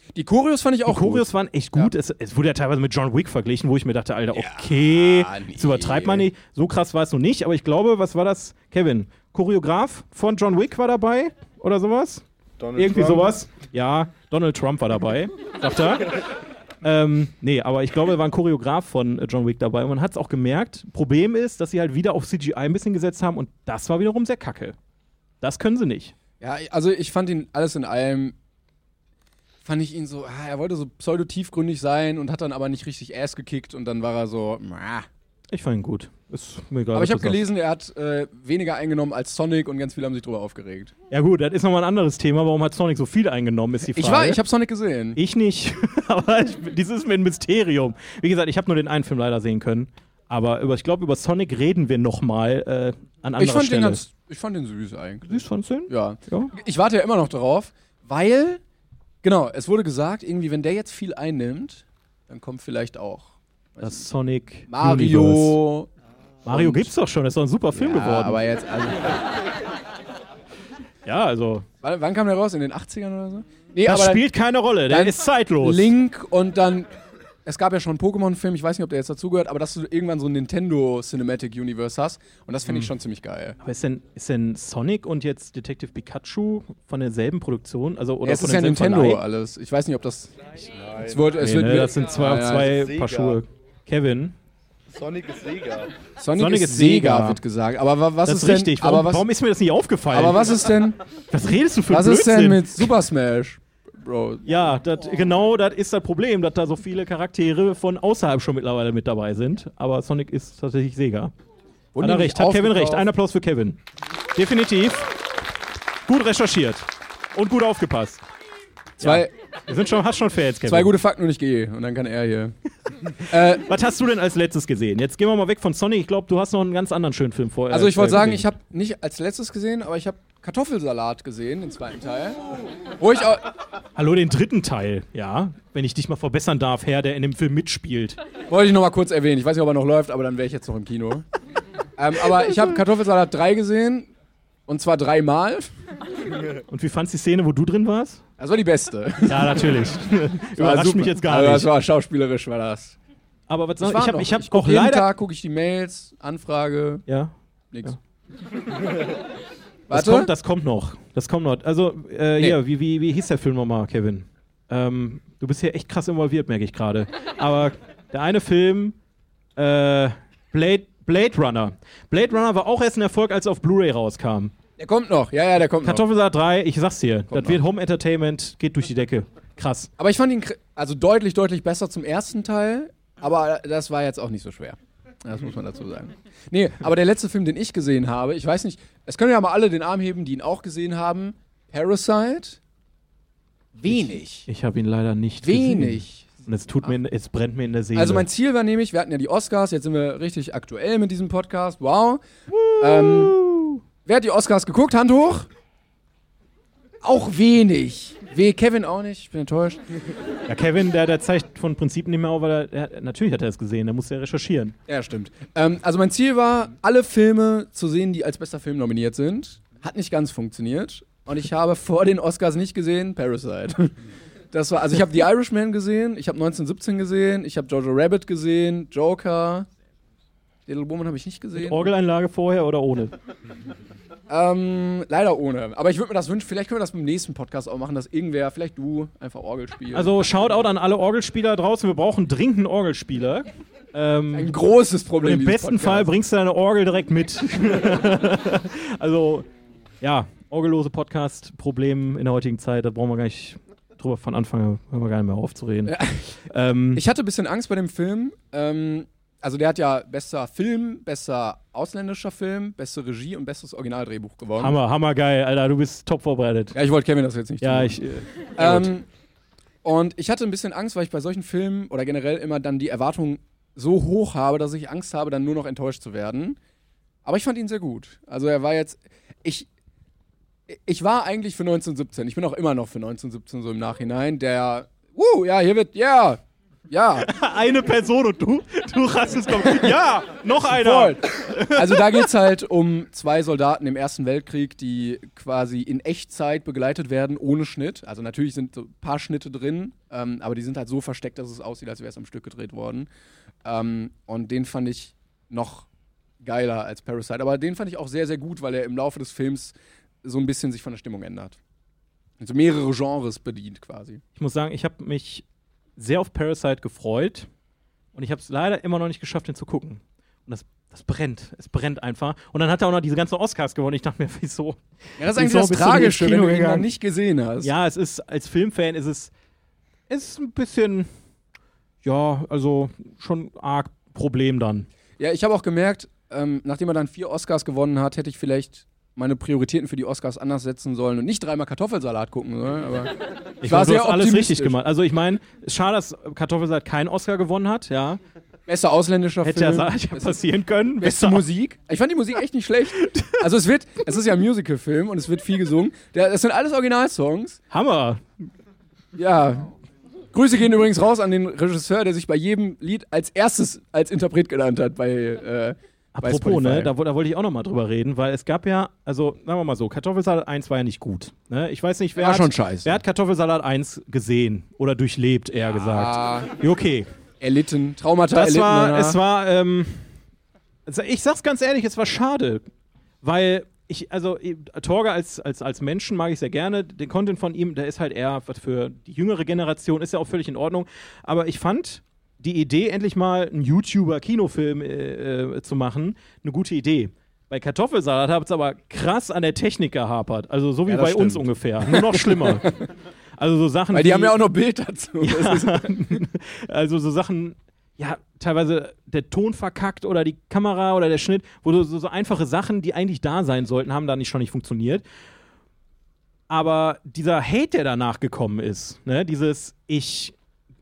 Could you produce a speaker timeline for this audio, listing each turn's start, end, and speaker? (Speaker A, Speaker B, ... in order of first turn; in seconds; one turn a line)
Speaker A: 0.1-1.9
Speaker B: 0.8-16.1
Speaker A: 4.3-6.3
Speaker C: 12.6-13.3
Speaker B: 16.8-24.8
Speaker B: 25.4-26.1
Speaker A: 26.4-28.3
Speaker A: 29.6-35.1
Speaker B: 35.5-37.4
Speaker A: 36.9-40.9
Speaker B: 41.1-44.4
Speaker A: 43.8-45.2
Speaker B: 45.1-54.0
Speaker A: 53.4-58.6
Speaker B: 55.2-56.5
Speaker A: 59.2-64.0
Speaker B: 63.8-65.6
Speaker A: 64.7-65.9
Speaker B: 66.4-68.4
Speaker A: 66.5-66.9
Speaker A: 67.7-69.3
Speaker B: 71.0-71.7
Speaker A: 71.8-74.2
Speaker B: 73.8-75.9
Speaker A: 74.9-76.9
Speaker A: 77.4-83.6
Speaker B: 83.6-89.2
Speaker A: 88.2-90.3
Speaker C: 90.9-91.1
Speaker A: 91.0-92.8
Speaker B: 91.3-94.3
Speaker C: 92.7-93.4
Speaker C: 94.9-95.9
Speaker A: 96.2-99.3
Speaker B: 96.3-97.4
Speaker B: 98.2-100.6
Speaker A: 100.1-101.0
Speaker B: 101.3-102.9
Speaker A: 101.9-104.4
Speaker B: 104.4-111.3
Speaker A: 111.9-113.1
Speaker B: 112.0-113.8
Speaker B: 114.3-115.1
Speaker B: 116.1-118.2
Speaker A: 119.0-119.3
Speaker B: 119.0-120.9
Speaker A: 120.7-122.5
Speaker A: 123.1-123.6
Speaker B: 123.4-128.5
Speaker A: 127.7-132.4
Speaker A: 133.0-133.5
Speaker B: 133.9-138.2
Speaker A: 138.5-141.2
Speaker A: 142.0-144.1
Speaker A: 144.7-145.7
Speaker B: 146.7-148.2
Speaker A: 148.4-149.8
Speaker B: 149.3-151.7
Speaker A: 150.5-153.0
Speaker B: 153.5-155.1
Speaker A: 153.8-157.0
Speaker B: 157.1-157.3
Speaker A: 159.9-160.3
Speaker B: 159.9-168.9
Speaker B: 169.6-174.5
Speaker A: 174.8-176.0
Speaker B: 175.8-179.9
Speaker A: 177.3-177.6
Speaker A: 180.0-192.6
Speaker A: 193.8-194.5
Speaker B: 193.9-198.2
Speaker A: 195.4-196.3
Speaker A: 197.9-202.2
Speaker B: 202.5-203.8
Speaker A: 202.8-203.4
Speaker A: 204.0-205.5
Speaker A: 207.0-209.8
Speaker B: 210.5-214.8
Speaker A: 214.9-223.9
Speaker A: 224.5-229.7
Speaker A: 230.7-231.9
Speaker B: 231.5-233.1
Speaker A: 234.3-240.2
Speaker B: 239.9-244.5
Speaker A: 244.3-246.1
Speaker B: 245.2-249.5
Speaker B: 250.0-257.0
Speaker A: 255.9-256.2
Speaker A: 256.9-264.7
Speaker B: 264.6-266.8
Speaker A: 266.7-268.0
Speaker B: 267.6-268.9
Speaker A: 268.6-269.1
Speaker A: 269.8-276.6
Speaker A: 277.2-279.7
Speaker A: 280.7-287.3
Speaker B: 287.2-292.3
Speaker A: 290.7-303.1
Speaker A: 303.6-305.9
Speaker A: 306.4-311.6
Speaker A: 312.4-314.2
Speaker B: 314.3-315.4
Speaker B: 316.0-317.5
Speaker B: 318.1-326.9
Speaker A: 325.2-327.7
Speaker B: 327.6-329.3
Speaker B: 330.1-331.1
Speaker B: 332.0-334.9
Speaker A: 335.2-344.8
Speaker B: 343.6-348.2
Speaker A: 348.7-350.4
Speaker B: 349.4-351.4
Speaker A: 351.0-357.6
Speaker B: 353.0-353.4
Speaker B: 357.7-358.2
Speaker A: 359.1-359.7
Speaker A: 360.3-366.9
Speaker B: 366.1-377.1
Speaker A: 372.1-373.0
Speaker A: 375.8-376.5
Speaker A: 377.4-379.2
Speaker B: 378.3-380.1
Speaker B: 380.9-382.6
Speaker B: 383.2-402.8
Speaker A: 400.9-402.8
Speaker B: 403.4-404.4
Speaker A: 403.9-405.9
Speaker B: 405.2-415.0
Speaker B: 416.5-420.3